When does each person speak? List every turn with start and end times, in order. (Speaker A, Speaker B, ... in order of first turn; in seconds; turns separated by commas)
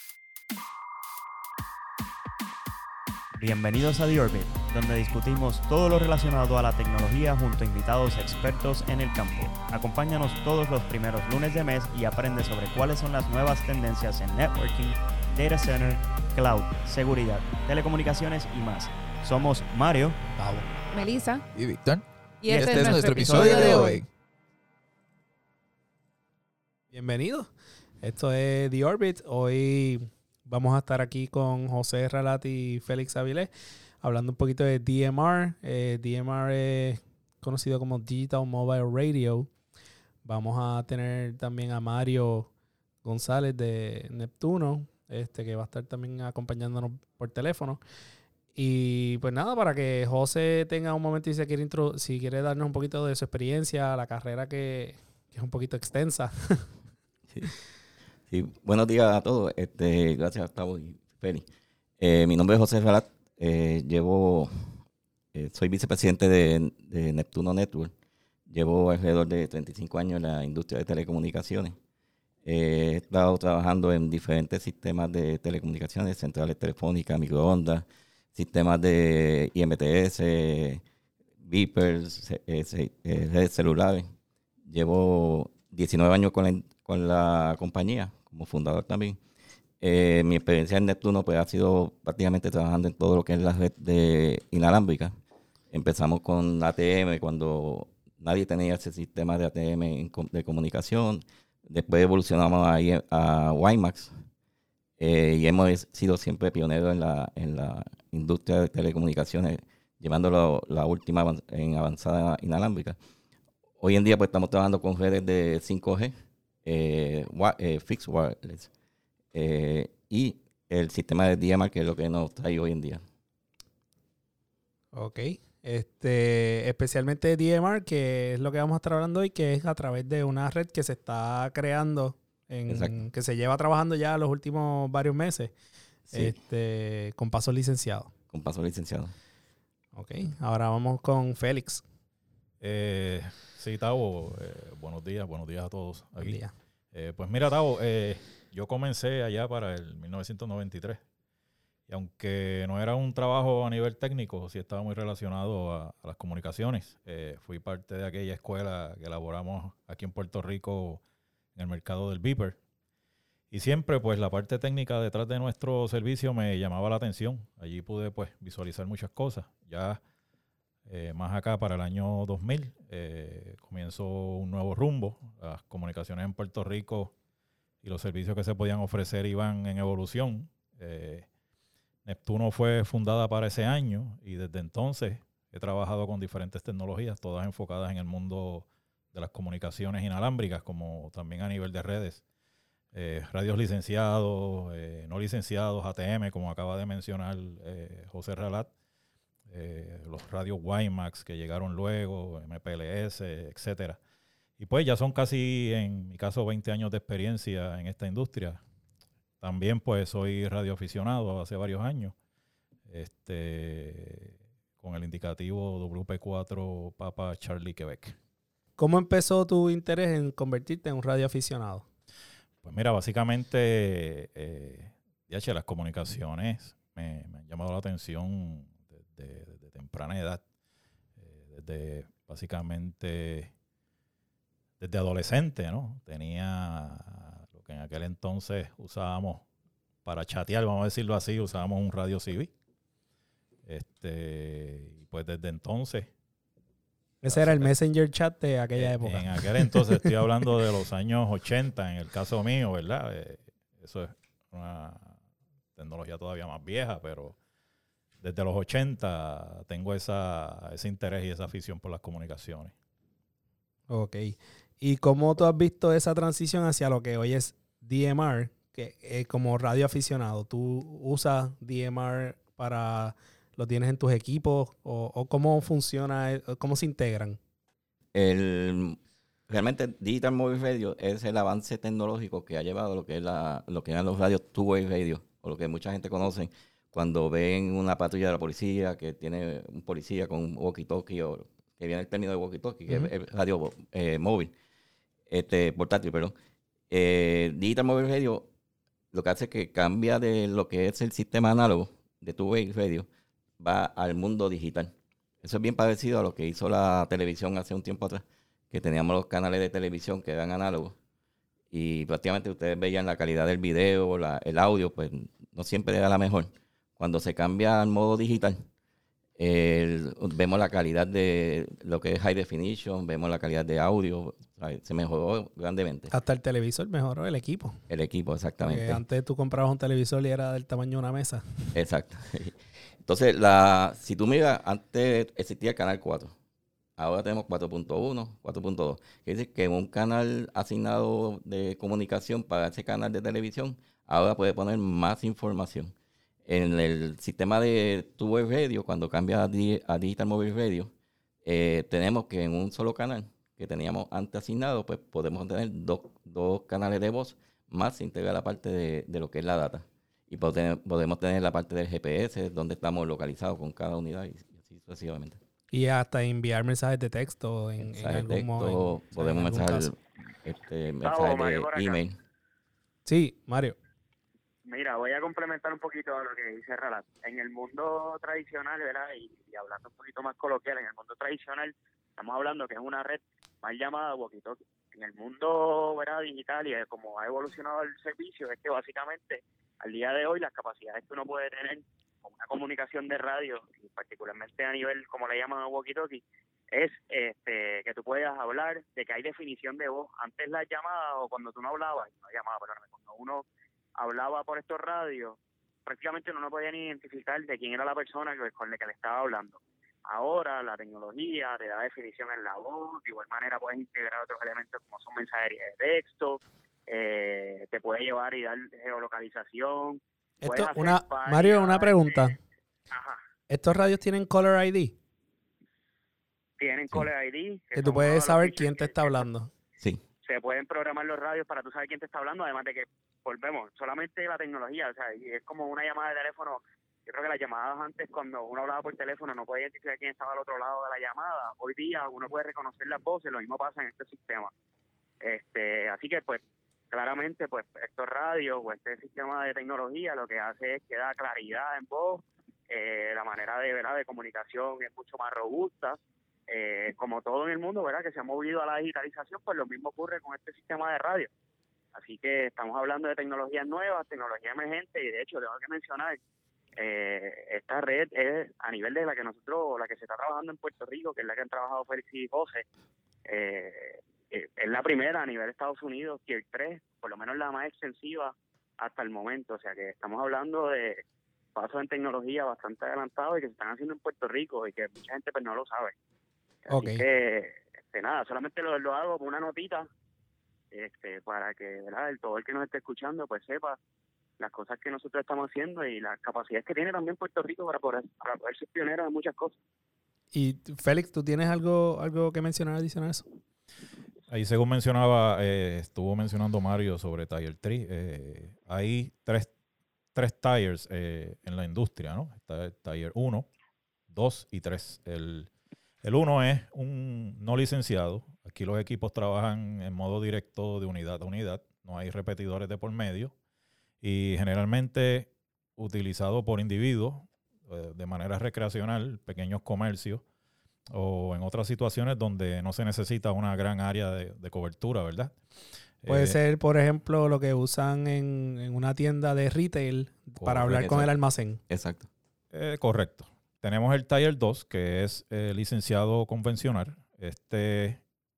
Speaker A: 3.4-20.2, Speaker B: 20.4-20.7, Speaker C: 20.9-21.4, Speaker D: 21.5-24.1, Speaker C: 22.4-24.0, Speaker A: 22.5-24.0, Speaker B: 26.9-27.5, Speaker B: 28.0-33.5, Speaker B: 34.0-39.5, Speaker B: 40.2-42.5, Speaker B: 43.0-47.8, Speaker B: 48.5-56.7, Speaker E: 58.3-61.5, Speaker E: 62.0-64.8, Speaker E: 65.3-67.9, Speaker E: 68.5-71.8, Speaker E: 72.4-80.8, Speaker E: 81.4-84.1, Speaker E: 84.7-89.2, Speaker E: 89.8-95.1, Speaker E: 95.7-104.2, Speaker E: 105.0-113.0, Speaker E: 113.8-116.1, Speaker E: 116.6-118.7, Speaker E: 119.3-123.0, Speaker B: 124.9-135.5, Speaker E: 132.7-133.0, Speaker B: 136.1-138.1, Speaker E: 138.3-139.1, Speaker B: 139.9-141.8, Speaker F: 142.6-146.4, Speaker B: 146.2-146.5, Speaker F: 146.9-151.0, Speaker F: 151.9-161.0, Speaker F: 161.5-162.6, Speaker F: 163.5-170.0, Speaker F: 170.8-177.1, Speaker F: 177.8-181.3, Speaker F: 182.0-192.2, Speaker F: 192.9-198.7, Speaker F: 199.5-204.0, Speaker F: 204.6-208.6, Speaker F: 209.4-212.1, Speaker F: 212.9-218.2, Speaker B: 218.8-221.8, Speaker F: 222.6-230.4, Speaker F: 231.2-233.5, Speaker F: 234.8-239.4, Speaker F: 240.0-242.5, Speaker F: 243.7-246.1, Speaker B: 247.2-250.2, Speaker F: 247.2-247.7, Speaker F: 248.8-255.2, Speaker F: 255.7-257.4, Speaker F: 258.2-262.7, Speaker B: 263.9-277.4, Speaker E: 278.1-294.5, Speaker E: 295.3-296.3, Speaker E: 296.9-298.5, Speaker E: 299.1-303.1, Speaker E: 303.6-310.9, Speaker E: 311.7-318.6, Speaker E: 319.4-326.1, Speaker B: 326.1-327.8, Speaker E: 327.9-329.0, Speaker B: 328.7-331.7, Speaker E: 331.7-336.3, Speaker E: 337.0-345.9, Speaker E: 346.4-350.9, Speaker E: 351.4-365.4, Speaker B: 365.7-369.9, Speaker E: 367.8-372.1, Speaker G: 371.0-372.0, Speaker B: 373.1-373.8, Speaker G: 374.6-403.4, Speaker G: 404.0-422.2, Speaker B: 420.4-422.4, Speaker G: 422.9-423.2, Speaker B: 423.5-424.9, Speaker G: 426.6-429.2, Speaker B: 427.8-429.5, Speaker G: 430.2-444.5, Speaker G: 445.2-461.3, Speaker G: 461.9-466.2, Speaker G: 466.8-472.6, Speaker G: 473.2-481.0, Speaker G: 481.5-485.9, Speaker G: 486.7-489.9, Speaker B: 486.7-487.0, Speaker G: 490.7-493.8, Speaker G: 494.4-499.6, Speaker B: 500.3-503.2, Speaker F: 504.3-509.5, Speaker F: 510.1-513.5, Speaker F: 514.1-515.5, Speaker F: 516.0-523.3, Speaker F: 524.0-530.2, Speaker F: 530.9-535.3, Speaker F: 536.0-536.4, Speaker B: 536.1-541.6, Speaker F: 540.4-540.9, Speaker E: 540.7-541.1, Speaker E: 541.7-542.1, Speaker F: 542.5-548.0